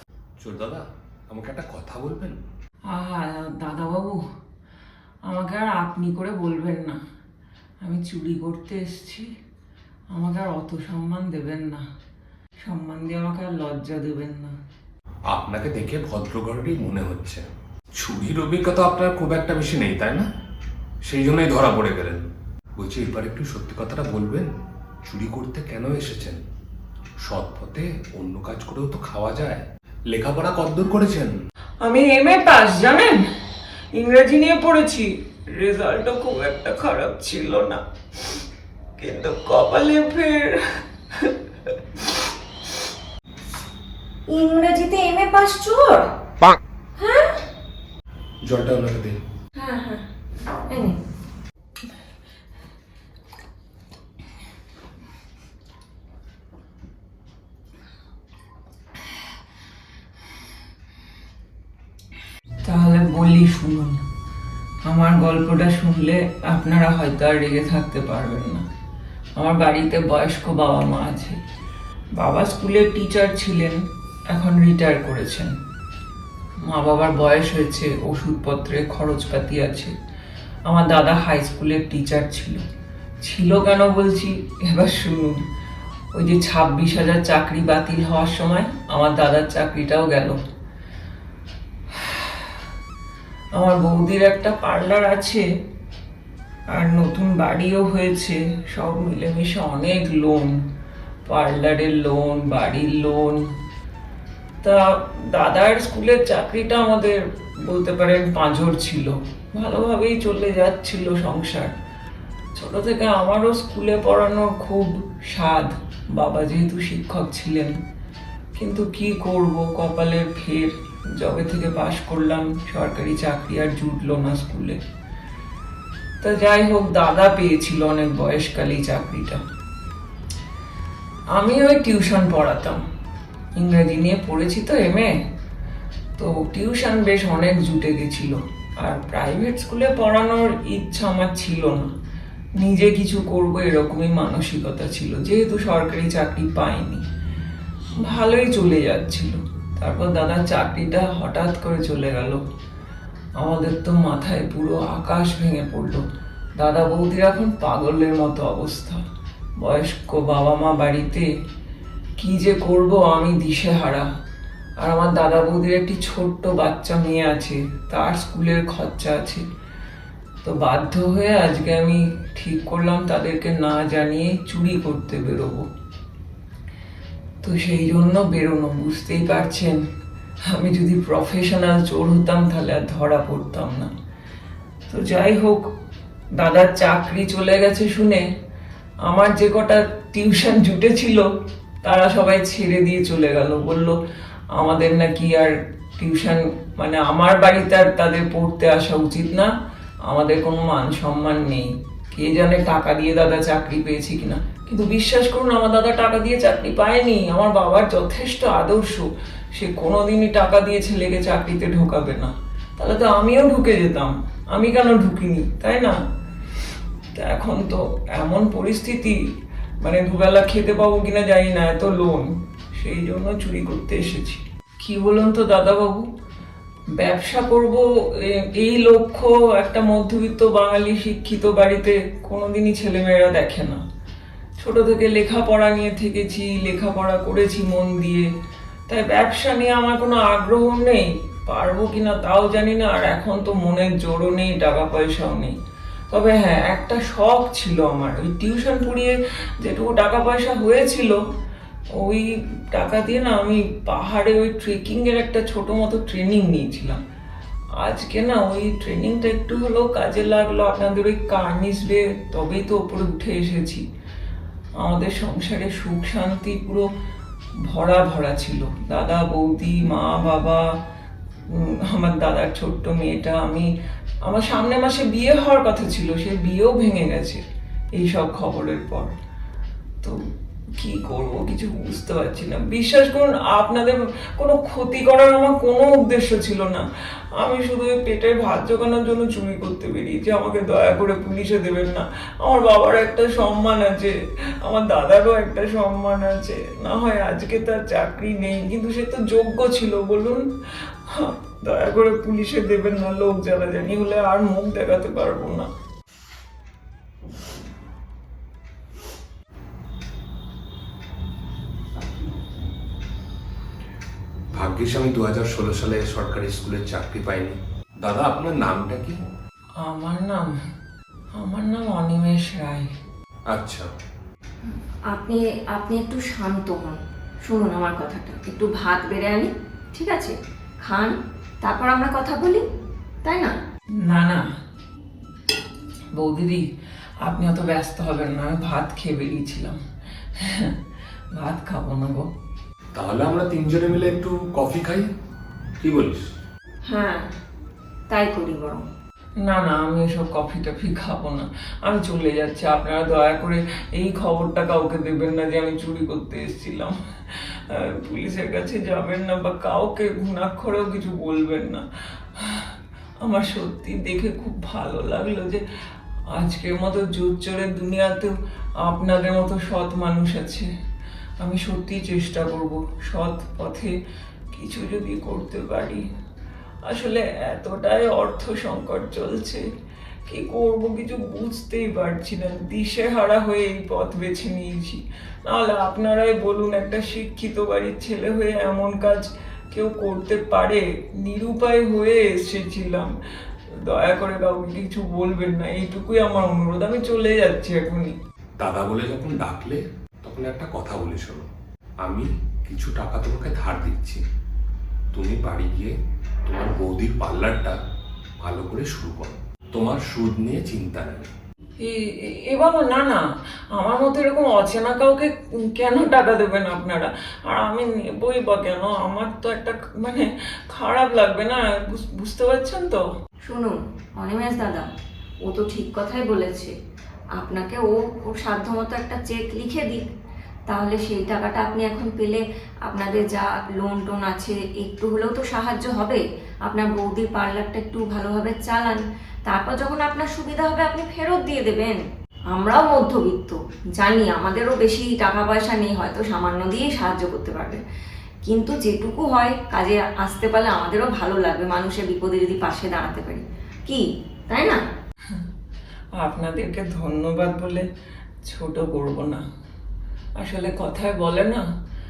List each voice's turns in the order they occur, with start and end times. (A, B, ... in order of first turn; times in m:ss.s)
0:00.4-0:02.4 A
0:02.9-0:04.2 B
0:05.2-0:07.0 B
0:07.8-0:09.3 B
0:10.1-0:11.8 B
0:12.6-0:14.5 B
0:15.3-0:17.4 A
0:18.0-0:20.3 A
0:21.1-0:24.5 A
0:25.0-0:26.4 A
0:27.2-0:31.4 A
0:31.8-0:33.2 B
0:34.0-0:37.8 B
0:39.0-0:40.6 B
0:41.1-0:42.1 B
0:44.3-0:46.1 C
0:47.0-0:47.4 C
0:48.4-0:49.2 A
0:49.5-0:50.0 C
0:50.7-0:51.0 C
1:02.6-1:04.0 B
1:04.8-1:08.6 B
1:09.4-1:11.4 B
1:12.2-1:15.5 B
1:16.6-1:19.9 B
1:20.6-1:22.6 B
1:23.2-1:25.4 B
1:26.1-1:30.4 B
1:32.0-1:32.4 B
1:33.5-1:35.4 B
1:36.7-1:40.6 B
1:41.2-1:43.4 B
1:44.6-1:51.7 B
1:52.5-1:57.8 B
1:58.6-2:04.8 B
2:06.2-2:09.4 B
2:11.3-2:12.8 B
2:13.6-2:15.1 B
2:16.2-2:21.9 B
2:22.6-2:27.0 B
2:28.0-2:32.4 B
2:33.4-2:36.0 B
2:36.6-2:39.0 B
2:39.6-2:41.3 B
2:42.2-2:44.1 B
2:44.8-2:49.4 B
2:50.4-2:55.7 B
2:57.4-2:59.8 B
3:00.5-3:03.9 B
3:04.9-3:05.6 B
3:06.4-3:08.2 B
3:09.0-3:11.3 B
3:11.8-3:14.0 B
3:14.5-3:19.5 B
3:20.1-3:36.0 B
3:37.1-3:39.2 B
3:39.8-3:46.1 B
3:47.0-3:53.8 B
3:54.6-3:58.3 B
3:58.9-4:05.6 B
4:06.1-4:11.2 B
4:11.9-4:17.0 B
4:17.8-4:23.9 B
4:24.8-4:26.9 B
4:27.6-4:30.6 B
4:31.5-4:33.7 B
4:34.2-4:37.4 B
4:38.0-4:39.1 B
4:40.8-4:46.8 B
4:47.4-5:00.4 B
5:01.1-5:05.7 B
5:14.5-5:19.2 A
5:19.8-5:20.5 B
5:21.4-5:22.9 B
5:23.5-5:23.9 A
5:25.1-5:32.6 C
5:33.2-5:33.5 C
5:34.0-5:34.4 B
5:36.1-5:36.6 B
5:37.2-5:39.8 B
5:40.4-5:40.8 B
5:41.3-5:42.3 B
5:42.9-5:45.1 A
5:45.8-5:46.2 A
5:46.9-5:47.3 C
5:48.1-5:48.9 C
5:49.4-6:01.9 B
6:02.4-6:05.6 B
6:06.3-6:10.7 B
6:11.4-6:13.9 B
6:14.5-6:16.0 B
6:16.9-6:19.6 B
6:20.2-6:33.1 B
6:33.9-6:38.1 B
6:38.6-6:41.5 A
6:42.0-6:44.2 A
6:45.1-6:45.9 A
6:46.4-6:47.8 A
6:48.4-6:51.3 A
6:51.8-7:03.0 B
7:03.4-7:04.9 C
7:05.4-7:06.7 C
7:07.4-7:10.1 C
7:10.7-7:27.8 C
7:28.4-7:34.8 C
7:36.2-7:37.9 B
7:38.4-7:39.4 B
7:40.4-7:41.6 B